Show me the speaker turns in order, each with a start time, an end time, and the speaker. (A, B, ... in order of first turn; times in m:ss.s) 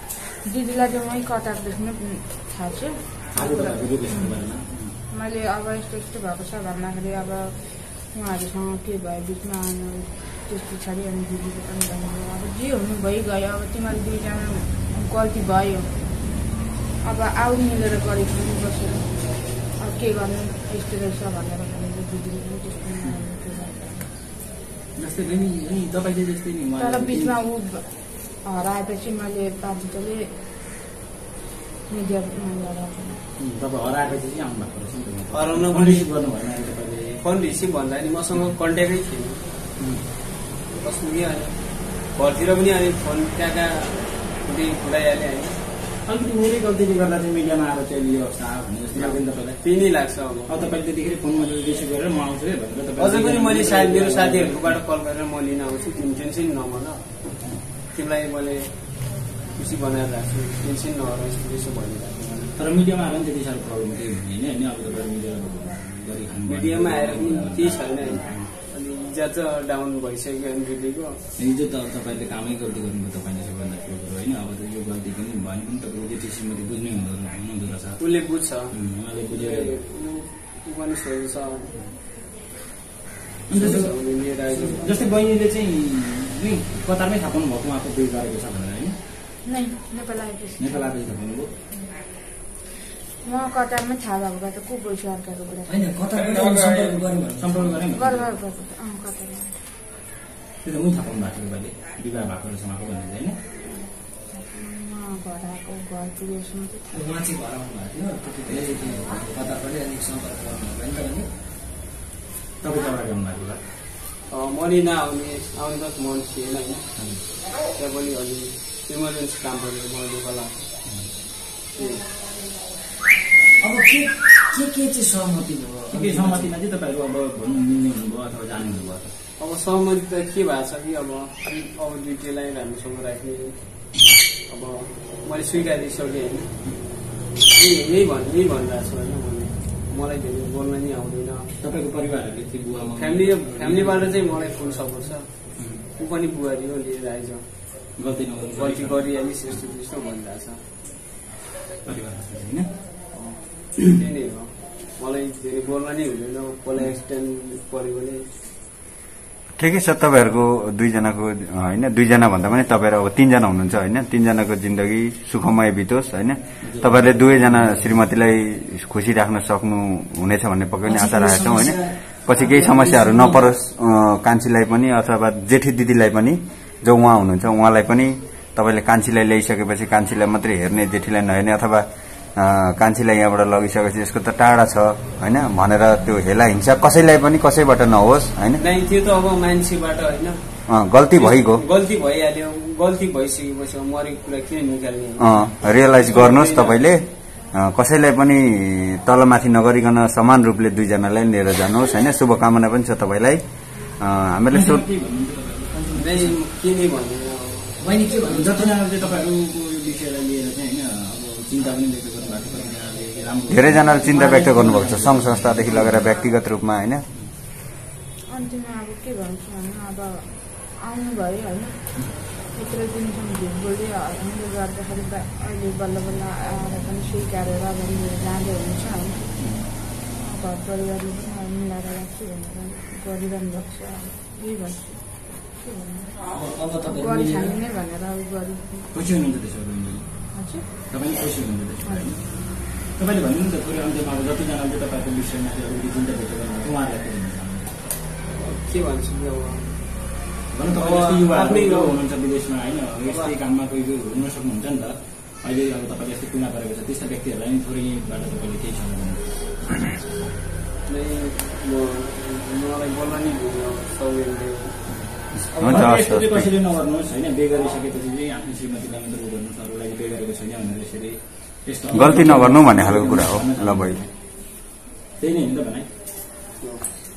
0:00.4-0:04.3 A
0:03.3-0:04.9 B
0:05.1-0:15.9 A
0:17.0-0:24.1 A
0:25.0-0:27.4 B
0:26.8-0:27.9 A
0:28.4-0:30.3 A
0:31.9-0:33.2 A
0:33.4-0:37.2 B
0:35.3-0:36.1 C
0:37.2-0:39.4 C
0:40.7-0:41.6 C
0:42.1-0:45.6 C
0:46.0-0:49.6 B
0:49.0-0:50.4 C
0:50.5-0:54.8 B
0:53.0-0:57.0 C
0:57.9-0:58.8 C
0:59.5-1:02.5 C
1:02.6-1:08.5 B
1:06.5-1:11.2 C
1:11.4-1:18.0 B
1:18.0-1:18.5 C
1:18.7-1:19.7 B
1:19.4-1:21.7 C
1:23.5-1:24.0 B
1:23.5-1:23.9 D
1:23.8-1:24.8 C
1:24.5-1:24.8 D
1:24.8-1:29.0 B
1:29.4-1:30.9 A
1:30.6-1:31.5 B
1:33.2-1:35.7 A
1:35.7-1:37.7 D
1:37.4-1:38.3 B
1:37.9-1:39.5 A
1:40.6-1:43.4 B
1:44.3-1:47.0 A
1:46.9-1:51.3 D
1:48.5-1:49.2 B
1:52.6-1:53.6 B
1:54.3-1:56.9 C
1:57.7-2:00.7 C
2:01.8-2:02.0 C
2:03.6-2:06.5 D
2:05.9-2:09.1 B
2:09.4-2:13.6 C
2:14.5-2:16.5 C
2:17.5-2:21.5 C
2:21.6-2:24.1 B
2:23.0-2:25.2 C
2:25.6-2:25.8 B
2:26.0-2:27.5 C
2:28.0-2:29.6 B
2:28.6-2:30.6 C
2:31.8-2:32.7 B
2:33.1-2:38.2 C
2:39.6-3:08.6 E
2:46.6-2:48.1 B
2:50.8-2:53.6 D
3:08.6-3:10.3 C
3:10.7-3:11.6 E
3:11.1-3:15.2 C
3:15.2-3:23.4 E
3:16.1-3:16.8 C
3:24.0-3:24.8 E
3:24.5-3:26.3 B
3:26.0-3:27.7 C
3:27.8-3:28.7 D
3:28.2-3:36.2 B
3:33.5-3:37.0 E
3:38.3-3:41.8 A
3:42.4-3:49.3 A
3:49.4-3:49.7 B
3:50.0-3:56.2 A
3:56.3-3:57.6 D
3:56.8-3:58.9 A
3:58.9-4:00.2 B
4:00.3-4:00.6 A
4:00.9-4:07.8 B
4:08.2-4:09.5 C
4:10.5-4:19.8 B
4:10.8-4:11.8 C
4:13.1-4:13.3 C
4:20.9-4:24.8 C
4:24.9-4:34.1 B
4:25.3-4:26.5 E
4:31.9-4:34.0 E
4:35.2-4:35.9 B
4:36.6-4:36.9 C